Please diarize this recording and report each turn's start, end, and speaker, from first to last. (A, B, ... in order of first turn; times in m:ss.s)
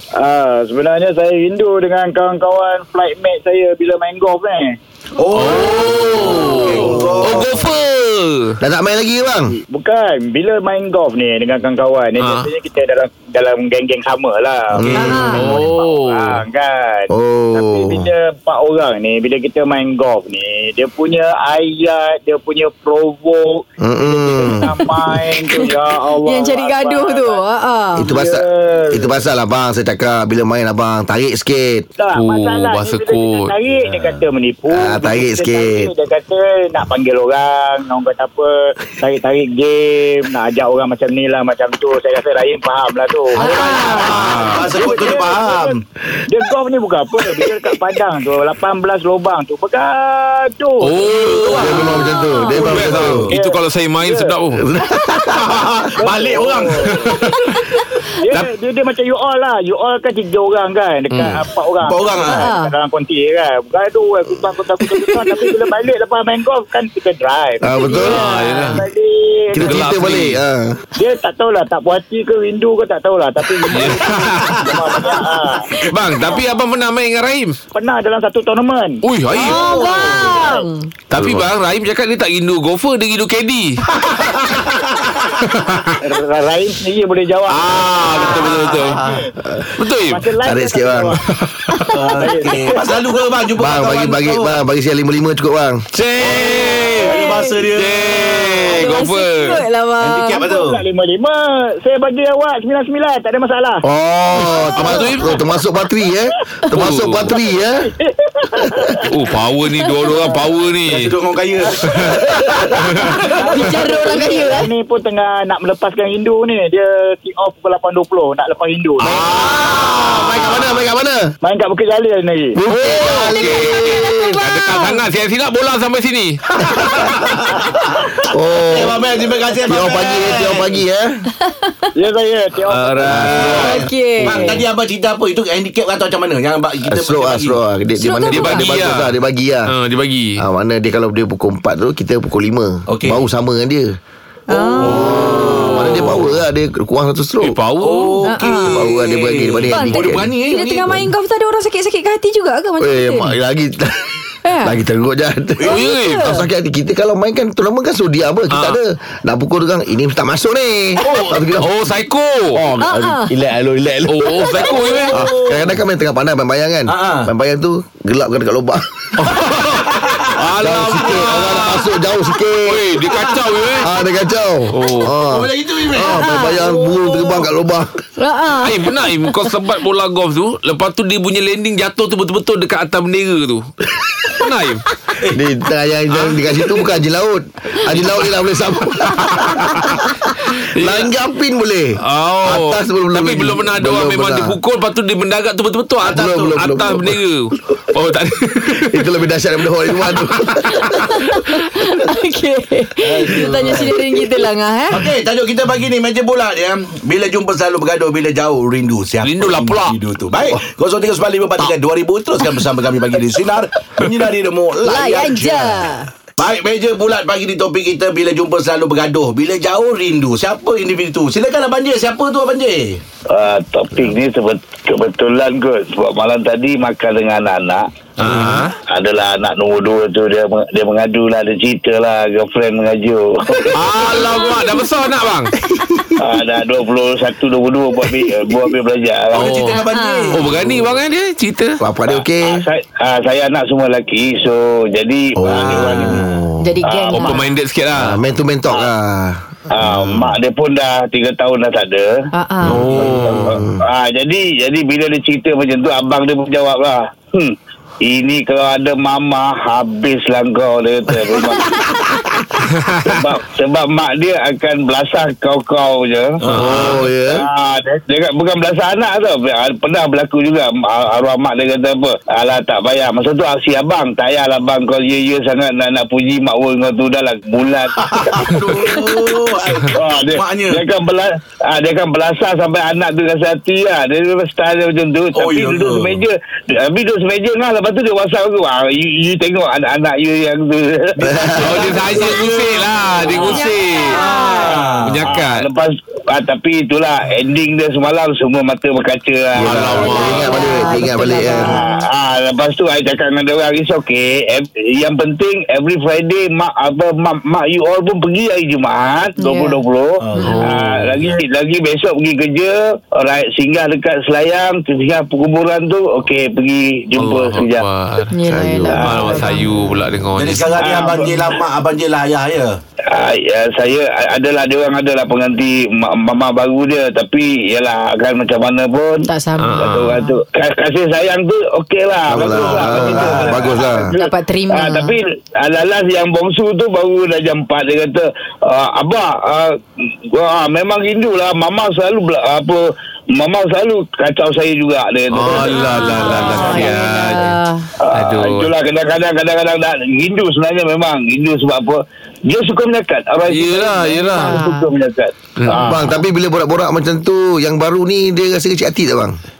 0:00.2-0:04.8 A
0:05.2-0:07.6 B
0:05.3-0:08.6 C
0:06.9-0:07.5 D
0:08.6-0:09.6 D
0:09.5-0:27.4 A
0:12.2-0:12.5 C
0:14.7-0:15.3 D
0:14.9-0:15.1 B
0:15.0-0:15.4 E
0:15.1-0:16.4 C
0:17.1-0:18.1 D
0:23.8-0:24.9 D
0:26.2-0:28.1 E
0:27.9-0:31.9 D
0:28.0-0:29.1 A
0:32.0-0:52.0 A
0:32.1-0:33.5 C
0:34.7-0:35.9 D
0:43.4-0:44.2 E
0:43.4-0:45.8 B
0:44.0-0:44.7 C
0:50.8-0:51.9 C
0:51.5-0:53.3 D
0:52.0-0:52.7 E
0:52.5-0:54.7 C
0:52.8-0:53.3 B
0:52.8-0:54.4 A
0:54.6-0:55.7 D
0:55.2-0:56.8 B
0:56.0-0:57.2 A
0:56.8-0:57.6 C
0:58.1-1:09.9 A
1:01.1-1:01.4 C
1:01.8-1:02.5 B
1:02.3-1:02.7 E
1:07.6-1:08.3 D
1:07.8-1:08.7 E
1:07.9-1:08.8 C
1:09.5-1:10.8 D
1:09.6-1:10.4 C
1:11.0-1:15.8 A
1:13.6-1:14.8 C
1:15.8-1:17.6 C
1:17.7-1:20.7 A
1:19.0-1:19.8 C
1:19.3-1:20.9 E
1:19.4-1:20.3 B
1:21.1-1:24.6 C
1:21.2-1:21.5 D
1:23.9-1:25.1 B
1:25.4-1:26.0 C
1:26.0-1:29.3 A
1:27.5-1:29.0 C
1:28.4-1:28.9 B
1:29.8-1:30.3 C
1:30.1-1:31.2 A
1:30.4-1:31.2 D
1:31.4-1:31.9 C
1:31.9-1:34.5 B
1:32.1-1:32.9 A
1:33.6-1:35.8 D
1:35.9-1:38.7 B
1:36.2-1:39.6 C
1:37.0-1:37.5 E
1:38.7-1:40.4 E
1:40.0-1:40.8 B
1:40.4-1:43.8 A
1:43.8-1:47.9 D
1:44.5-1:45.0 E
1:44.5-1:45.4 C
1:46.7-1:47.3 C
1:47.8-1:49.1 A
1:48.6-1:49.0 D
1:49.1-1:51.1 C
1:50.0-1:50.4 A
1:50.8-1:53.3 B
1:51.8-1:53.3 C
1:53.1-1:59.2 A
1:53.4-1:54.7 E
1:59.0-2:00.7 C
1:59.1-2:01.3 D
2:01.4-2:02.6 A
2:02.6-2:04.4 D
2:02.8-2:06.4 C
2:04.3-2:05.0 E
2:06.6-2:08.0 B
2:08.3-2:09.1 D
2:08.7-2:10.8 B
2:09.6-2:11.3 D
2:11.4-2:11.9 E
2:12.0-2:13.6 A
2:12.6-2:13.8 C
2:13.1-2:13.6 D
2:13.2-2:17.6 B
2:13.5-2:14.6 E
2:16.8-2:19.7 D
2:18.0-2:18.7 E
2:18.3-2:19.1 C
2:19.7-2:20.4 C
2:20.4-2:24.0 D
2:22.9-2:23.2 B
2:24.5-2:25.8 E
2:24.8-2:26.3 C
2:24.9-2:27.6 D
2:27.4-2:28.2 C
2:27.8-2:31.0 B
2:28.2-2:28.9 E
2:28.5-2:30.3 D
2:29.7-2:33.3 E
2:32.8-2:41.7 D
2:34.4-2:34.8 E
2:35.6-2:36.5 E
2:35.7-2:36.3 C
2:38.5-2:38.8 C
2:41.0-2:41.3 B
2:41.2-2:42.6 C
2:42.5-2:48.8 D
2:42.8-2:43.3 E
2:44.1-2:45.3 C
2:45.1-2:45.7 B
2:46.9-2:47.3 B
2:49.2-2:53.9 C
2:49.9-2:50.3 B
2:50.6-2:53.0 D
2:53.8-2:57.9 D
2:54.7-2:55.1 C
2:55.2-2:57.4 B
2:56.0-2:56.8 E
2:58.2-2:59.4 E
2:58.5-3:03.6 C
3:04.3-3:04.8 C
3:05.3-3:14.6 D
3:06.1-3:06.8 B
3:09.1-3:10.0 C
3:10.5-3:11.1 C
3:12.0-3:19.1 C
3:16.0-3:17.2 D
3:16.1-3:16.5 B
3:18.8-3:21.3 D
3:20.7-3:25.1 E
3:23.0-3:24.1 B
3:24.9-3:43.0 B
3:29.2-3:30.0 C
3:34.8-3:36.1 E
3:43.3-3:47.8 F
3:48.2-3:48.7 C
3:48.2-3:48.6 B
3:48.9-3:53.7 F
3:53.7-3:55.5 C
3:56.2-3:59.5 F
3:59.3-4:00.7 B
3:59.4-4:01.8 C
3:59.7-4:00.4 E
4:01.8-4:02.6 D
4:02.0-4:06.1 F
4:05.4-4:06.8 D
4:05.4-4:06.4 B
4:06.6-4:07.5 E
4:06.8-4:07.3 F
4:07.1-4:08.2 C
4:07.9-4:10.3 D
4:09.7-4:12.1 F
4:12.3-4:12.9 E
4:12.6-4:13.5 C
4:12.8-4:13.8 D
4:13.0-4:22.0 F
4:22.6-4:23.1 C
4:23.1-4:26.4 F
4:26.4-4:27.0 B
4:26.5-4:27.0 C
4:26.5-4:27.5 D
4:27.3-4:38.4 F
4:38.0-4:40.8 B
4:39.9-4:51.5 F
4:45.3-4:46.2 B
4:51.2-4:52.0 D
4:51.4-4:53.6 B
4:51.5-4:54.2 C
4:53.3-4:54.9 E
4:54.1-4:55.2 B
4:55.0-4:55.6 C
4:55.2-5:00.2 F
4:59.5-5:01.8 D
4:59.6-5:00.8 C
4:59.8-5:02.0 E
5:01.6-5:17.8 F
5:09.4-5:09.8 E
5:10.2-5:10.6 B
5:10.4-5:10.7 E
5:10.4-5:11.1 C
5:17.2-5:18.3 C
5:18.3-5:19.7 E
5:18.4-5:19.4 D
5:18.9-5:20.7 C
5:20.3-5:22.8 B
5:20.7-5:21.6 F
5:23.1-5:29.3 F
5:29.3-5:30.4 E
5:29.6-5:30.2 C
5:29.8-5:39.7 F
5:32.3-5:34.1 D
5:32.4-5:33.5 B
5:34.1-5:35.2 E
5:40.3-5:42.8 F
5:43.3-5:46.9 F
5:45.3-5:47.6 C
5:45.5-5:47.9 E
5:48.0-5:55.9 F
5:48.1-5:48.7 C
5:53.5-5:54.6 C
5:54.3-5:54.9 E
5:55.6-5:56.1 C
5:55.7-5:59.4 D